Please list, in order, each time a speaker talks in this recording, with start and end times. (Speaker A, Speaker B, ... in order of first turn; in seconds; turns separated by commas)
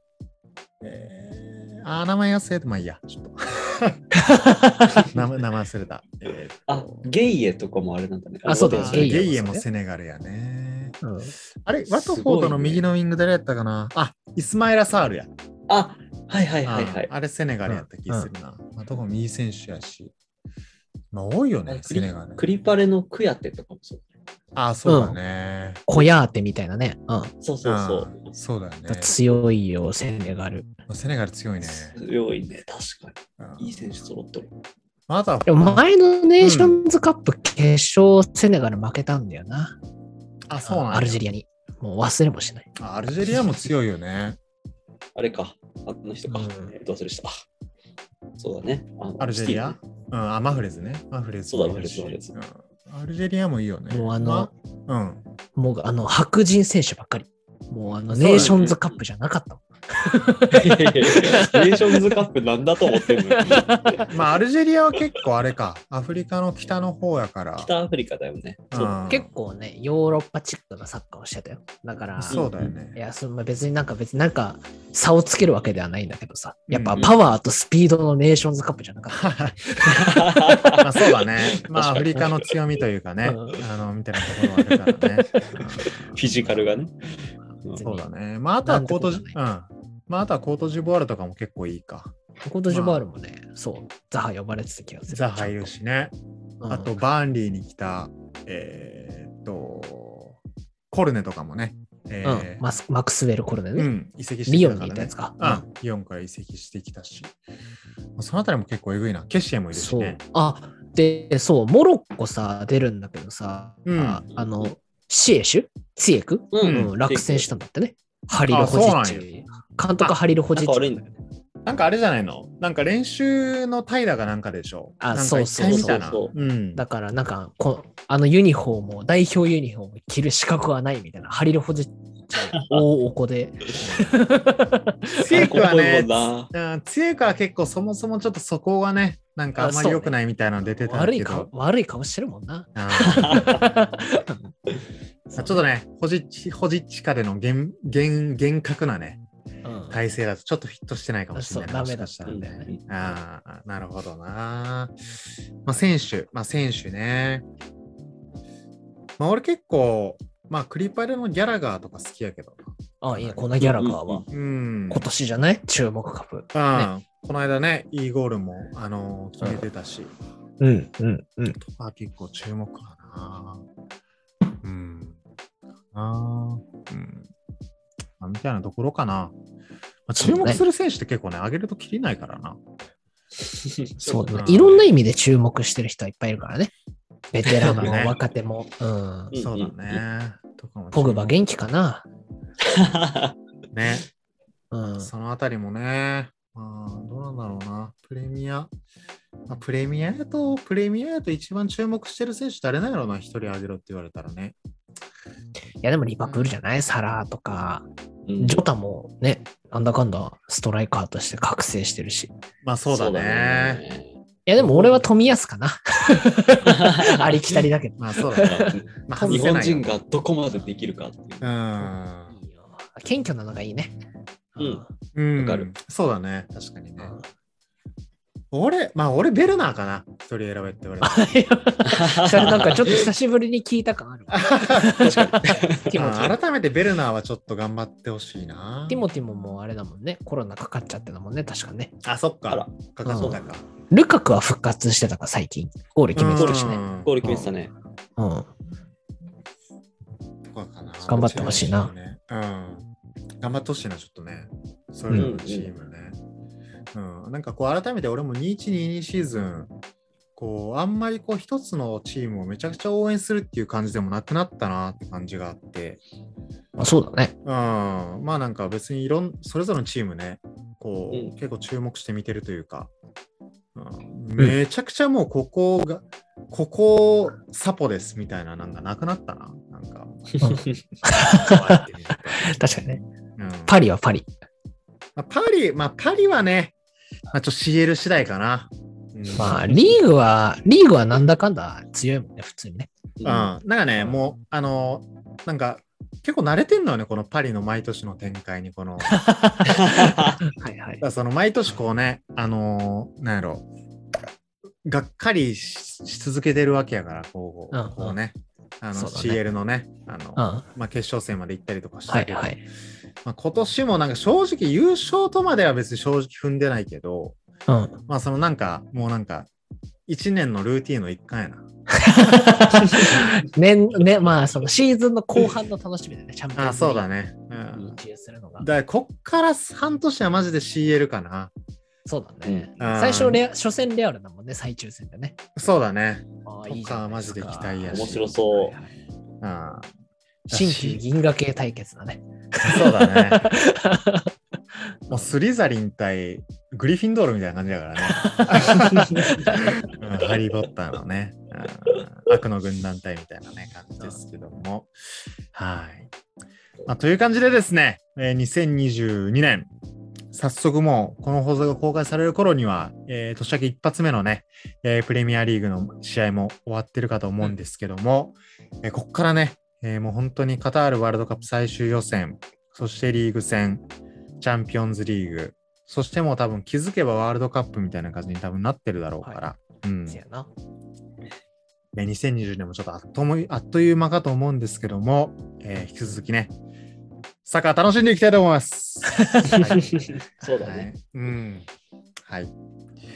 Speaker A: 0.8-4.0, Speaker B: 4.2-5.1, Speaker A: 5.1-7.1, Speaker C: 6.7-9.2, Speaker B: 8.5-9.7, Speaker A: 8.7-11.0, Speaker B: 11.0-11.3, Speaker A: 11.7-15.3, Speaker C: 11.9-12.8, Speaker C: 15.7-17.1, Speaker A: 16.6-20.1, Speaker B: 17.7-18.3, Speaker A: 21.1-22.4, Speaker C: 21.7-24.0, Speaker A: 24.6-25.8, Speaker B: 24.9-25.2, Speaker B: 25.9-27.3, Speaker C: 27.4-28.2, Speaker A: 27.6-29.1, Speaker B: 28.9-30.7, Speaker A: 30.9-32.0, Speaker C: 31.6-34.5, Speaker A: 33.4-33.8, Speaker A: 35.1-35.9, Speaker B: 35.5-39.8, Speaker A: 36.4-36.8, Speaker A: 40.5-41.2, Speaker B: 40.6-42.7, Speaker A: 42.8-44.4, Speaker B: 43.2-43.7, Speaker C: 45.2-47.3, Speaker B: 46.3-46.7, Speaker C: 48.4-49.8, Speaker A: 49.2-55.2, Speaker C: 51.5-52.4, Speaker B: 53.9-54.5, Speaker B: 55.5-62.2, Speaker A: 58.1-58.6, Speaker C: 58.2-59.0, Speaker C: 60.5-64.1, Speaker B: 62.9-64.0, Speaker A: 64.1-67.7, Speaker C: 67.6-69.0, Speaker A: 68.7-69.3, Speaker B: 69.1-80.8, Speaker A: 72.2-73.0, Speaker C: 72.3-72.7, Speaker A: 76.7-77.2, Speaker A: 79.1-79.6, Speaker C: 79.9-82.5, Speaker A: 80.8-86.7, Speaker B: 83.2-83.6, Speaker C: 85.6-86.9, Speaker B: 87.6-88.1, Speaker A: 87.8-92.1, Speaker B: 88.6-89.4, Speaker B: 92.4-95.7, Speaker A: 92.7-93.0, Speaker A: 95.1-96.1, Speaker B: 96.6-96.9, Speaker A: 96.7-100.4, Speaker A: 100.9-102.6, Speaker B: 102.2-103.9, Speaker A: 103.8-107.3, Speaker B: 104.5-105.7, Speaker A: 108.2-110.2, Speaker B: 109.7-121.0, Speaker A: 113.8-114.2, Speaker C: 114.3-114.7, Speaker C: 116.5-117.5, Speaker A: 116.6-116.9, Speaker A: 118.5-119.3, Speaker C: 120.5-121.1, Speaker A: 121.7-126.8, Speaker B: 125.0-126.0, Speaker C: 125.6-126.3, Speaker B: 126.8-135.4, Speaker C: 132.5-132.8, Speaker C: 135.2-136.5, Speaker A: 135.2-141.5, Speaker B: 139.6-140.2, Speaker B: 140.8-144.5, Speaker A: 142.8-143.8, Speaker C: 143.0-143.7, Speaker B: 145.3-145.6, Speaker A: 145.4-149.2, Speaker B: 149.6-150.0, Speaker A: 149.9-155.0, Speaker B: 151.3-152.7, Speaker C: 152.3-152.8, Speaker A: 155.6-157.5, Speaker A: 159.2-163.6, Speaker B: 163.0-164.3, Speaker C: 163.6-164.2, Speaker A: 164.3-165.1, Speaker B: 164.9-166.9, Speaker A: 166.5-170.1, Speaker B: 170.6-171.6, Speaker A: 171.6-173.6, Speaker A: 174.6-175.2, Speaker A: 175.9-177.3, Speaker A: 178.2-179.3, Speaker A: 180.1-182.6, Speaker B: 180.2-180.6, Speaker C: 183.5-184.4, Speaker B: 184.0-186.7, Speaker A: 184.3-184.9, Speaker B: 187.3-189.4, Speaker C: 187.5-188.0, Speaker A: 187.6-188.2, Speaker C: 189.3-190.0, Speaker A: 189.4-191.3, Speaker B: 190.9-192.1, Speaker C: 192.6-193.4, Speaker A: 193.7-194.1, Speaker B: 194.7-195.1, Speaker A: 195.0-198.7, Speaker A: 199.5-204.6, Speaker B: 205.8-207.9, Speaker A: 206.2-206.6, Speaker C: 208.3-208.6, Speaker B: 208.4-212.3, Speaker A: 212.6-213.8, Speaker C: 212.9-215.1, Speaker B: 214.5-219.5, Speaker C: 216.7-217.6, Speaker A: 218.0-219.9, Speaker C: 218.4-221.5, Speaker A: 221.4-222.3, Speaker B: 222.3-223.9, Speaker B: 224.6-224.9, Speaker C: 224.6-224.8, Speaker A: 225.2-227.1, Speaker C: 225.4-225.7, Speaker B: 227.0-227.3, Speaker A: 228.5-231.3, Speaker B: 231.0-236.4, Speaker C: 231.9-233.0, Speaker A: 234.3-239.6, Speaker C: 235.0-236.0, Speaker B: 238.9-241.9, Speaker A: 242.0-243.6, Speaker C: 242.5-243.4, Speaker B: 243.1-247.5, Speaker A: 246.1-247.2, Speaker C: 246.3-247.7, Speaker B: 248.2-248.5, Speaker A: 250.4-252.9, Speaker B: 251.1-251.9, Speaker A: 253.4-256.2, Speaker C: 255.2-255.7, Speaker A: 256.9-259.7, Speaker A: 260.4-266.0, Speaker B: 266.8-267.3, Speaker A: 267.4-272.9, Speaker A: 273.8-280.4, Speaker C: 280.4-280.8, Speaker B: 280.4-283.0, Speaker A: 281.2-283.8, Speaker B: 283.7-284.3, Speaker A: 285.2-286.7, Speaker A: 287.3-289.6, Speaker B: 289.4-292.9, Speaker C: 293.2-293.5, Speaker A: 293.2-299.2, Speaker B: 299.1-301.0, Speaker C: 299.7-300.4, Speaker A: 301.0-303.7, Speaker A: 304.8-312.6, Speaker B: 307.7-308.2, Speaker B: 308.9-309.4, Speaker B: 310.4-310.7, Speaker B: 312.1-312.6, Speaker A: 313.2-317.4, Speaker B: 317.7-318.0, Speaker A: 318.1-319.5, Speaker A: 320.1-321.6, Speaker B: 321.9-327.1, Speaker A: 322.3-323.2, Speaker C: 322.9-323.2, Speaker A: 326.6-328.0, Speaker B: 327.8-328.7, Speaker A: 328.6-331.5, Speaker B: 332.1-335.4, Speaker A: 332.8-333.4, Speaker A: 335.6-338.3, Speaker B: 336.4-338.9, Speaker C: 337.9-338.8, Speaker A: 339.4-339.9, Speaker A: 340.5-341.0, Speaker B: 340.5-344.3, Speaker A: 342.6-343.5, Speaker A: 345.1-356.1, Speaker B: 348.0-349.8, Speaker A: 356.9-359.7, Speaker A: 360.3-373.8, Speaker A: 374.4-380.2, Speaker B: 380.1-380.5, Speaker A: 381.9-386.5, Speaker A: 387.4-391.7, Speaker B: 389.2-389.6, Speaker C: 389.5-390.9, Speaker A: 392.2-392.5